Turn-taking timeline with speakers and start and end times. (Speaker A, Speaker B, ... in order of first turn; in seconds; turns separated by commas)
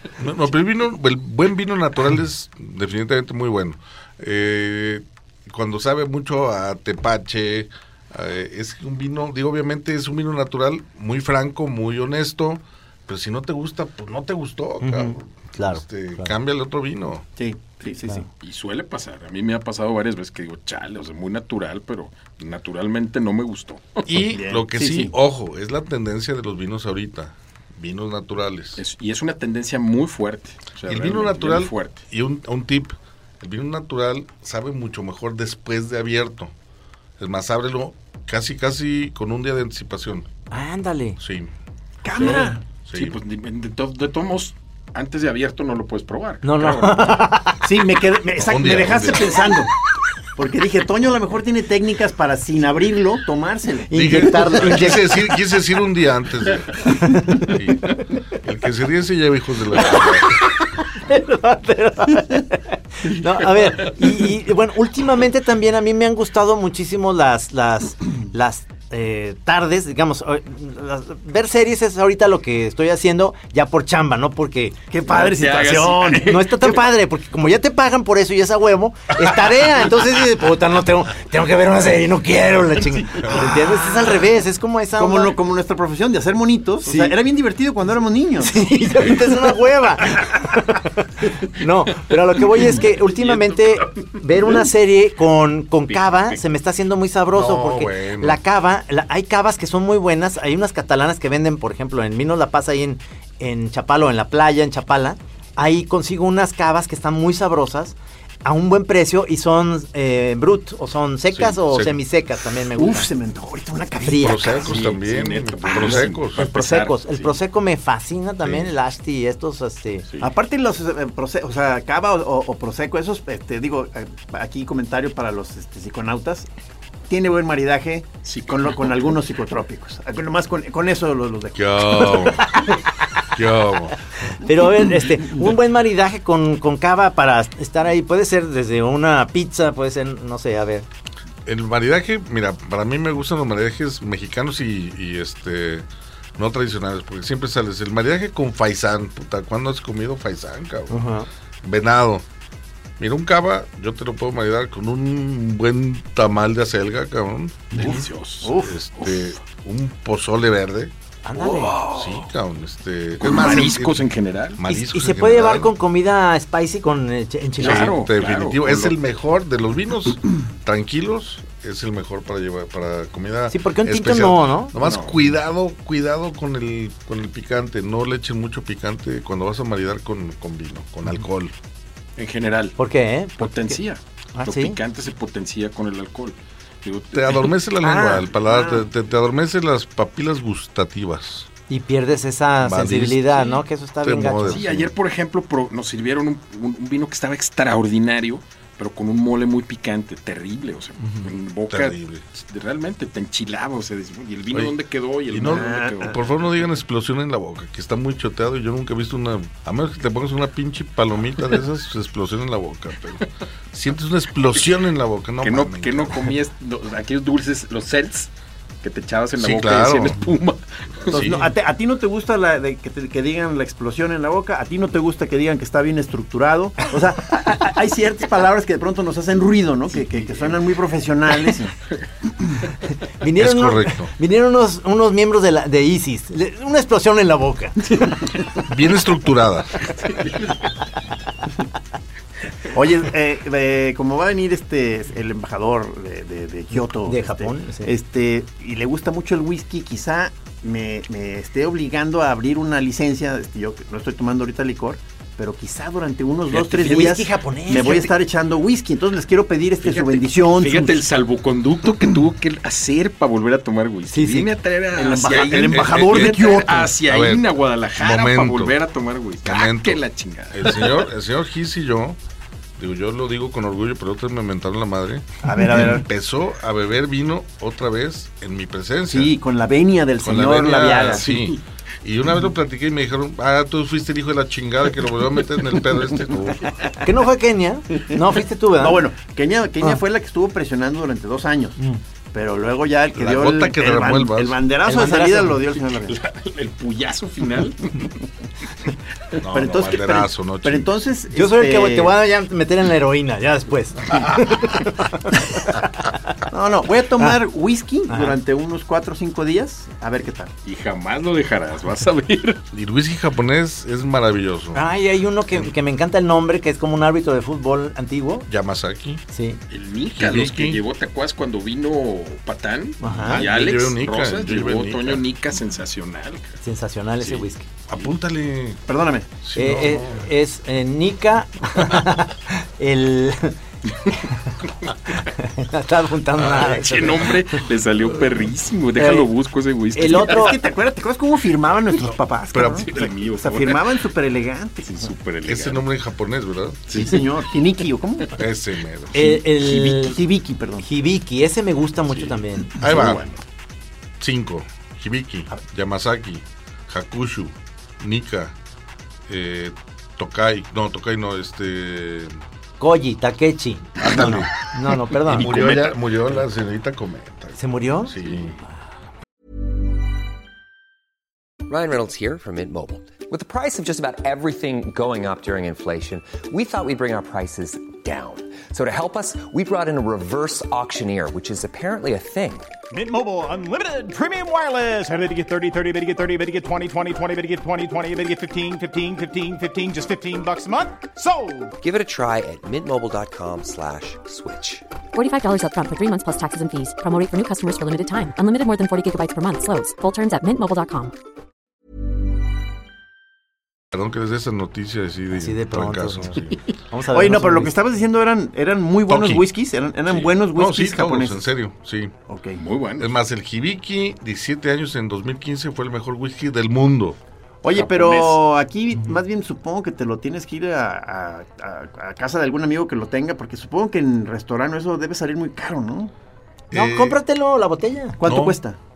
Speaker A: 0.2-17.2, Speaker B: 14.8-16.3, Speaker C: 17.4-18.3, Speaker D: 18.4-24.1, Speaker A: 24.1-28.8, Speaker C: 24.2-25.1, Speaker D: 28.8-32.0, Speaker A: 30.9-36.5, Speaker A: 37.2-40.3, Speaker B: 40.5-41.2, Speaker A: 41.2-41.5, Speaker C: 42.0-42.6, Speaker A: 42.1-43.2, Speaker D: 42.1-47.3, Speaker B: 46.4-47.6, Speaker C: 47.6-49.7, Speaker A: 48.4-49.4, Speaker C: 50.4-54.8, Speaker B: 53.9-55.3, Speaker A: 53.9-60.4, Speaker B: 57.0-57.5, Speaker B: 60.4-74.8, Speaker C: 74.9-76.4, Speaker D: 75.0-76.8, Speaker B: 76.2-85.3, Speaker C: 83.2-84.2, Speaker C: 85.0-88.6, Speaker B: 86.8-87.2, Speaker B: 88.4-113.1, Speaker D: 92.8-94.2, Speaker D: 95.9-96.4, Speaker A: 97.3-98.4, Speaker A: 111.3-112.0, Speaker C: 112.7-114.8, Speaker B: 114.0-114.6, Speaker A: 114.2-116.4, Speaker D: 114.6-117.3, Speaker B: 116.3-120.0, Speaker A: 118.4-118.7, Speaker C: 120.2-126.5, Speaker C: 127.1-132.3, Speaker D: 128.2-129.2, Speaker A: 131.5-132.7, Speaker A: 133.3-133.9, Speaker B: 134.4-140.8, Speaker A: 141.4-151.1, Speaker B: 150.9-151.3, Speaker A: 151.6-152.2, Speaker A: 153.0-157.9, Speaker D: 157.7-159.3, Speaker C: 157.8-158.7, Speaker A: 158.5-160.9, Speaker B: 161.2-161.8, Speaker D: 161.4-162.2, Speaker A: 161.8-165.7, Speaker D: 163.2-164.6, Speaker B: 164.7-167.9, Speaker D: 167.6-168.9, Speaker A: 167.6-181.5, Speaker B: 173.5-174.7, Speaker D: 174.8-175.2, Speaker D: 182.2-182.8, Speaker B: 182.8-183.8, Speaker D: 183.4-187.5, Speaker B: 184.3-184.8, Speaker A: 187.1-191.5, Speaker C: 187.8-188.9, Speaker B: 191.7-194.6, Speaker A: 192.6-193.5, Speaker A: 194.0-194.9, Speaker D: 194.5-206.4, Speaker A: 201.7-202.2, Speaker A: 205.3-216.3, Speaker C: 205.4-206.2, Speaker D: 215.4-218.3, Speaker D: 218.8-221.4, Speaker A: 219.4-220.2, Speaker A: 221.0-221.5, Speaker C: 221.1-231.8, Speaker B: 233.2-238.2, Speaker A: 233.3-234.1, Speaker A: 238.6-239.8, Speaker D: 239.8-240.6, Speaker C: 242.7-261.0, Speaker B: 246.7-247.9, Speaker D: 256.5-257.2, Speaker B: 256.7-258.1, Speaker D: 259.8-271.0, Speaker B: 264.1-264.5, Speaker C: 264.9-266.9, Speaker A: 265.5-268.7, Speaker A: 269.4-272.2, Speaker A: 272.8-279.3, Speaker C: 275.4-276.1, Speaker C: 279.1-281.3, Speaker A: 280.2-286.7, Speaker D: 281.2-281.4, Speaker B: 287.0-289.0, Speaker C: 288.8-291.8, Speaker C: 292.3-296.2, Speaker A: 293.1-294.6, Speaker B: 294.8-295.6, Speaker D: 295.9-298.1, Speaker A: 299.4-300.9, Speaker C: 299.5-302.1, Speaker B: 301.3-306.4, Speaker C: 306.5-310.5, Speaker B: 308.1-308.4, Speaker D: 310.6-312.6, Speaker A: 312.7-314.8, Speaker B: 314.7-318.5, Speaker A: 318.5-319.2, Speaker B: 319.3-319.6, Speaker D: 319.7-326.6, Speaker A: 320.1-320.8, Speaker B: 323.0-323.4, Speaker A: 323.2-325.2, Speaker B: 326.6-327.7, Speaker D: 327.2-328.1, Speaker A: 327.9-328.8, Speaker C: 328.9-329.3, Speaker A: 329.4-330.3, Speaker B: 329.5-333.6, Speaker B: 334.1-337.4, Speaker D: 336.4-340.6, Speaker B: 339.0-339.3, Speaker B: 339.9-340.6, Speaker C: 340.0-345.1, Speaker A: 342.5-342.9, Speaker D: 342.6-344.0, Speaker D: 344.8-345.9, Speaker A: 345.4-347.1, Speaker D: 346.9-347.2, Speaker C: 346.9-348.4, Speaker A: 348.4-349.2, Speaker B: 349.1-350.2, Speaker C: 349.1-350.9, Speaker B: 350.8-352.7, Speaker D: 352.1-353.4, Speaker A: 352.8-353.2, Speaker A: 354.2-358.5, Speaker A: 359.3-362.4, Speaker B: 362.8-365.5, Speaker A: 364.0-364.5, Speaker A: 365.1-368.6, Speaker D: 365.3-366.0, Speaker B: 367.6-368.1, Speaker E: 371.7-382.7, Speaker F: 382.9-391.8, Speaker E: 391.8-394.8, Speaker G: 395.1-401.1, Speaker A: 403.9-406.6, Speaker B: 405.3-407.7, Speaker C: 407.1-411.4, Speaker A: 409.1-409.5, Speaker A: 410.2-412.1, Speaker C: 412.3-412.6, Speaker D: 412.6-413.1, Speaker A: 413.0-417.2, Speaker C: 417.6-426.1, Speaker D: 417.7-418.4, Speaker A: 426.7-427.2, Speaker B: 426.7-428.2, Speaker C: 428.2-428.8, Speaker A: 428.2-428.6